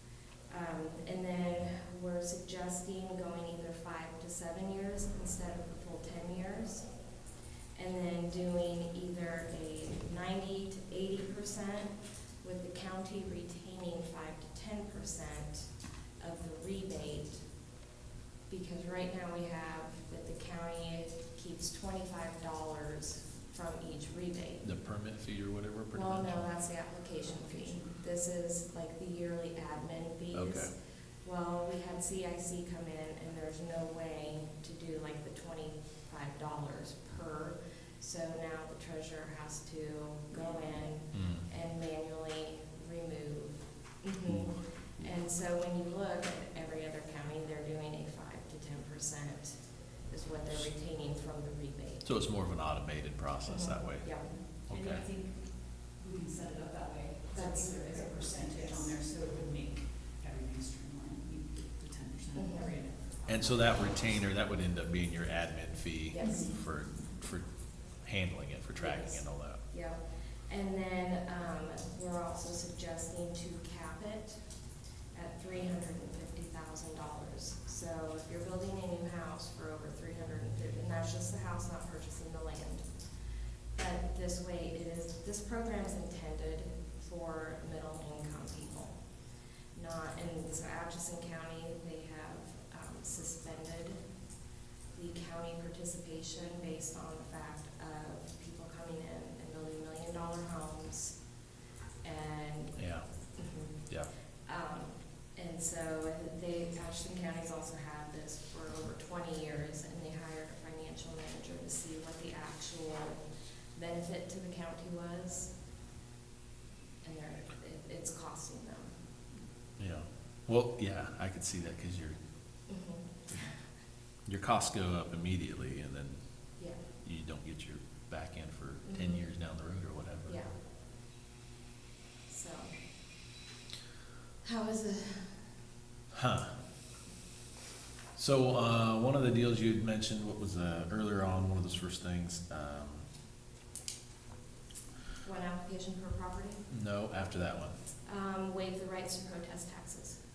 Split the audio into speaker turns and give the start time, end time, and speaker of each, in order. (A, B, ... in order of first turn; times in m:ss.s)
0:00.5-0:06.9 A
0:07.8-0:17.4 A
0:18.5-0:24.7 A
0:24.6-0:26.5 B
0:25.9-0:30.7 A
0:27.2-0:27.9 C
0:30.3-0:30.7 B
0:31.2-0:52.1 A
0:41.1-0:41.4 B
0:52.0-0:55.0 B
0:53.5-0:54.4 A
0:54.6-1:04.2 C
0:57.3-0:58.9 A
1:02.3-1:02.7 A
1:03.3-1:07.4 B
1:06.1-1:06.5 A
1:06.2-1:06.5 C
1:08.0-1:09.6 B
1:08.8-1:14.4 A
1:15.1-1:22.8 A
1:23.7-1:29.0 A
1:29.7-1:34.0 A
1:34.9-1:41.2 A
1:42.0-1:42.8 A
1:42.8-1:43.0 B
1:43.4-1:43.8 A
1:44.4-1:53.2 A
1:53.7-1:55.5 A
1:57.0-1:58.9 A
1:59.8-2:02.2 B
2:02.7-2:03.6 A
2:04.2-2:06.2 B
2:07.0-2:10.4 B
2:08.8-2:09.2 A
2:10.3-2:10.5 A
2:12.3-2:12.7 A
2:14.4-2:15.3 A
2:16.1-2:16.5 B
2:18.2-2:23.0 B
2:25.2-2:26.6 A
2:26.7-2:27.8 B
2:28.0-2:30.2 A